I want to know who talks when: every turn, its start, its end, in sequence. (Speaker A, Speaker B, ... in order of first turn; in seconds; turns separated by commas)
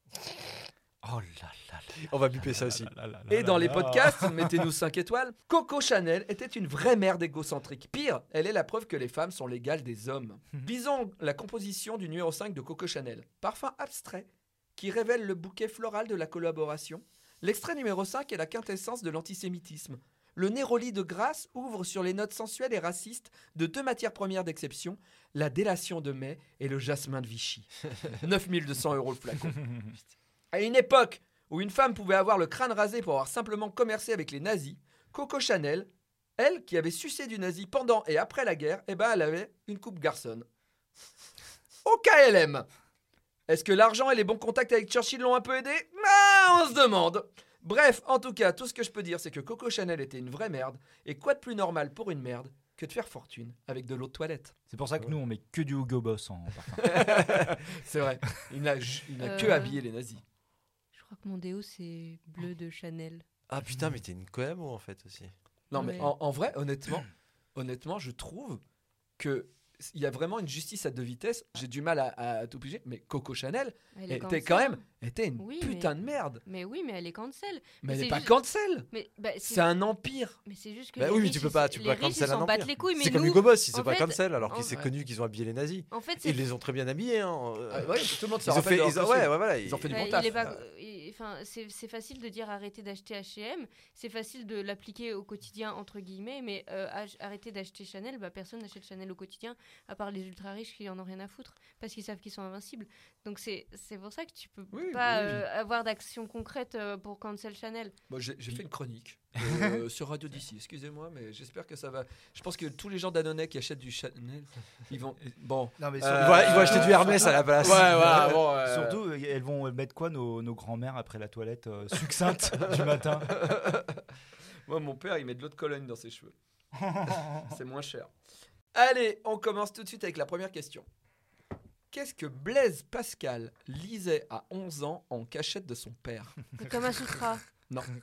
Speaker A: 1.0-4.7, Speaker B: 2.1-2.9, Speaker C: 3.3-29.6, Speaker C: 30.5-40.5, Speaker C: 41.9-42.7, Speaker C: 43.5-54.5, Speaker A: 54.7-57.5, Speaker C: 56.8-60.2, Speaker D: 59.2-59.8, Speaker D: 60.9-63.2, Speaker B: 63.5-65.3, Speaker C: 65.7-68.6, Speaker D: 65.8-66.1, Speaker C: 69.2-76.4, Speaker D: 74.0-74.8, Speaker D: 75.4-75.9, Speaker D: 76.5-79.7, Speaker C: 77.8-78.9, Speaker C: 79.5-80.4, Speaker D: 80.5-84.7, Speaker B: 81.0-90.6, Speaker C: 84.5-84.9, Speaker D: 85.9-86.4, Speaker C: 87.7-90.5, Speaker D: 89.9-107.9, Speaker C: 104.7-105.4, Speaker C: 108.1-119.0, Speaker A: 109.4-109.8, Speaker A: 115.8-123.4, Speaker B: 116.1-118.4, Speaker C: 123.2-124.0, Speaker C: 124.7-126.3, Speaker A: 126.8-127.5, Speaker C: 127.4-128.1, Speaker C: 128.7-130.8, Speaker C: 131.9-136.4, Speaker D: 136.6-137.4